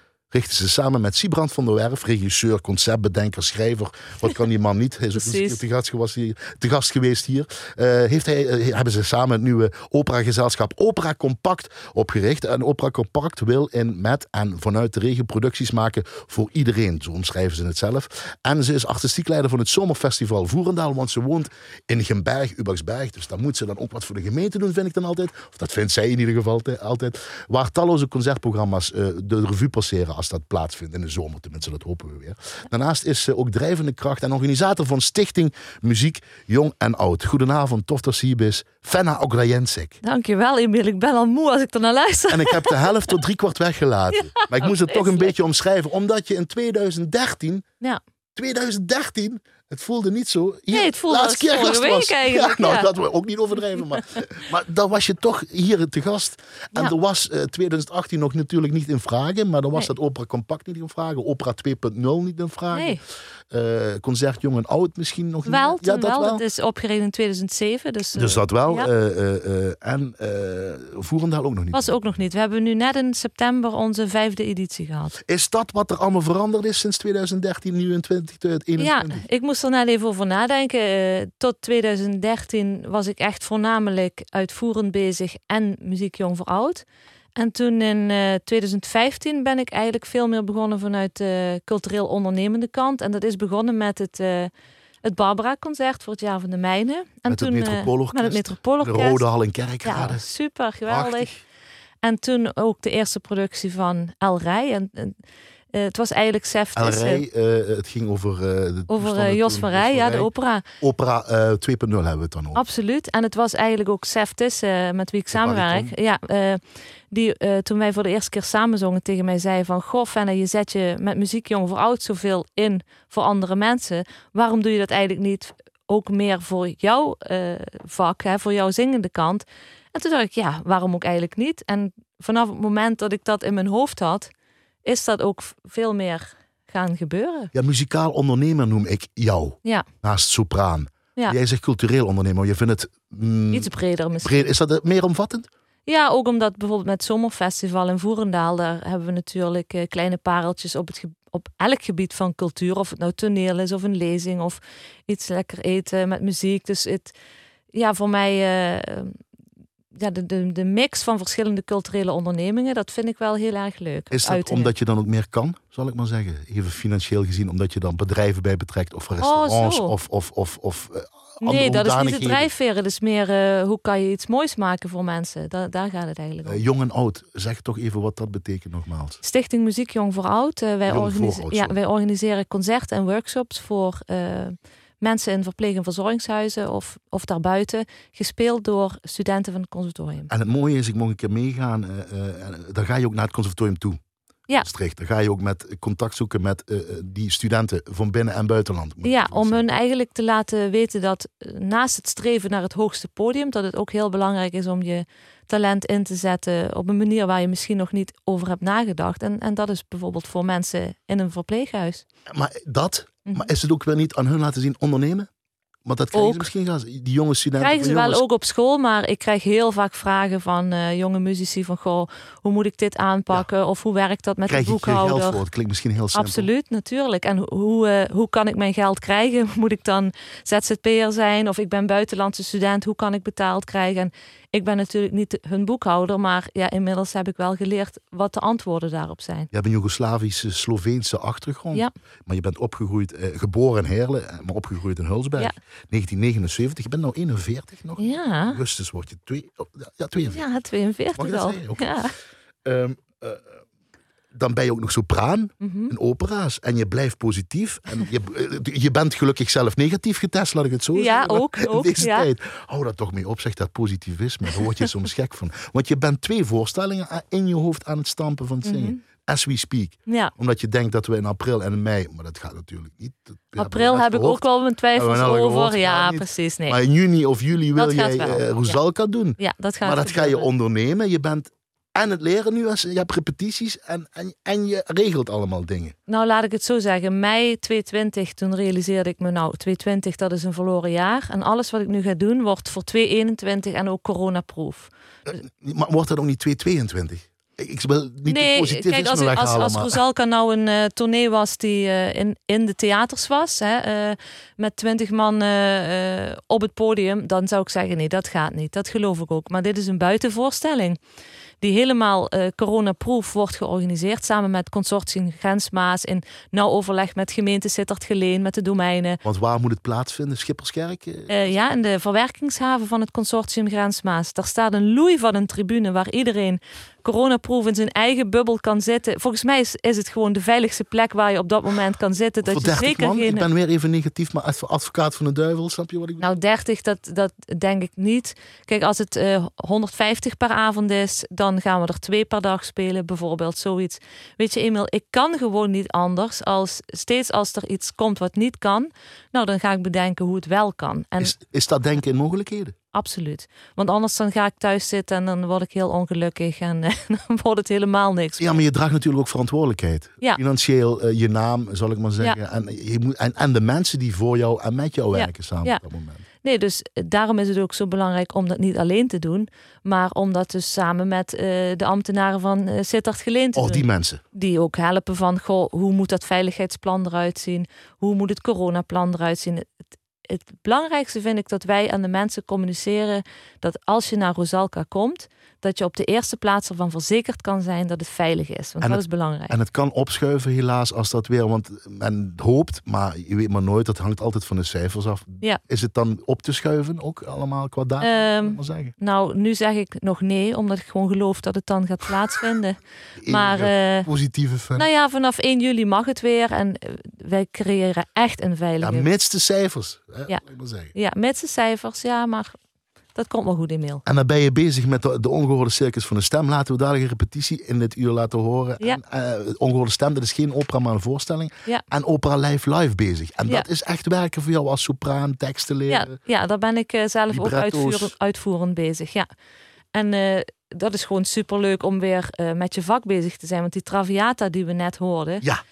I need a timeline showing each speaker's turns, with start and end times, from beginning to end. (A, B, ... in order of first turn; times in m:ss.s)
0:00.3-0:40.0 A
0:05.1-0:05.6 B
0:40.0-0:42.8 B
0:42.3-0:47.7 A
0:44.1-0:45.3 B
0:48.4-1:03.0 A
0:50.7-0:52.9 B
1:02.7-1:03.0 B
1:03.5-1:06.4 A
1:05.5-1:08.9 B
1:08.2-1:11.9 A
1:11.7-1:15.2 B
1:15.3-1:19.2 A
1:18.8-1:26.8 B
1:27.4-1:34.5 B
1:35.0-1:39.2 B
1:37.3-1:40.2 A
1:39.8-1:41.3 B
1:40.9-1:41.4 A
1:42.0-1:45.2 B
1:45.7-1:47.2 B
1:46.8-1:52.6 A
1:48.9-1:50.6 B
1:52.6-2:14.3 B
1:55.3-1:55.9 A
2:14.8-2:17.5 B
2:17.5-2:25.5 A
2:23.5-2:24.5 B
2:25.9-2:37.1 B
2:37.7-2:39.2 B
2:39.9-2:44.7 B
2:44.1-2:52.5 A
2:49.2-2:50.0 B
2:51.4-2:56.6 B
2:56.4-2:59.2 A
2:59.2-3:10.3 B
3:00.9-3:01.7 A
3:10.3-3:14.0 A
3:14.6-3:19.6 A
3:19.0-3:32.0 B
3:32.3-3:35.3 A
3:35.8-3:38.2 A
3:36.1-3:36.5 B
3:37.6-3:45.4 B
3:44.5-3:46.5 A
3:46.1-3:59.5 B
3:59.5-4:10.4 A
4:08.0-4:08.6 B
4:10.3-4:12.2 B
4:11.1-4:12.1 A
4:12.6-4:13.4 A
4:14.3-4:34.4 A
4:15.6-4:15.9 B
4:21.0-4:22.3 B
4:28.6-4:29.0 B
4:30.1-4:30.3 B
4:33.5-4:36.8 B
4:35.0-4:46.0 A
4:37.8-4:38.8 B
4:39.4-4:40.5 B
4:46.1-4:54.9 B
4:55.3-5:00.0 A
4:58.3-5:11.0 B
5:11.6-5:19.2 B
5:19.2-5:21.4 A
5:21.3-5:33.5 B
5:32.4-5:36.2 A
5:36.2-5:51.3 B
5:51.2-5:52.8 A
5:52.9-5:58.6 B
5:58.4-6:06.3 A
6:05.1-6:05.8 B
6:06.4-6:29.6 B
6:13.6-6:14.2 A
6:28.8-6:38.9 A
6:38.0-6:44.1 B
6:43.2-6:44.9 A
6:44.8-6:49.1 B
6:48.8-6:50.9 A
6:50.9-6:52.6 B
6:53.2-6:54.0 B
6:54.1-7:06.2 A
7:05.9-7:09.3 B
7:07.3-7:08.1 A
7:09.9-7:15.4 B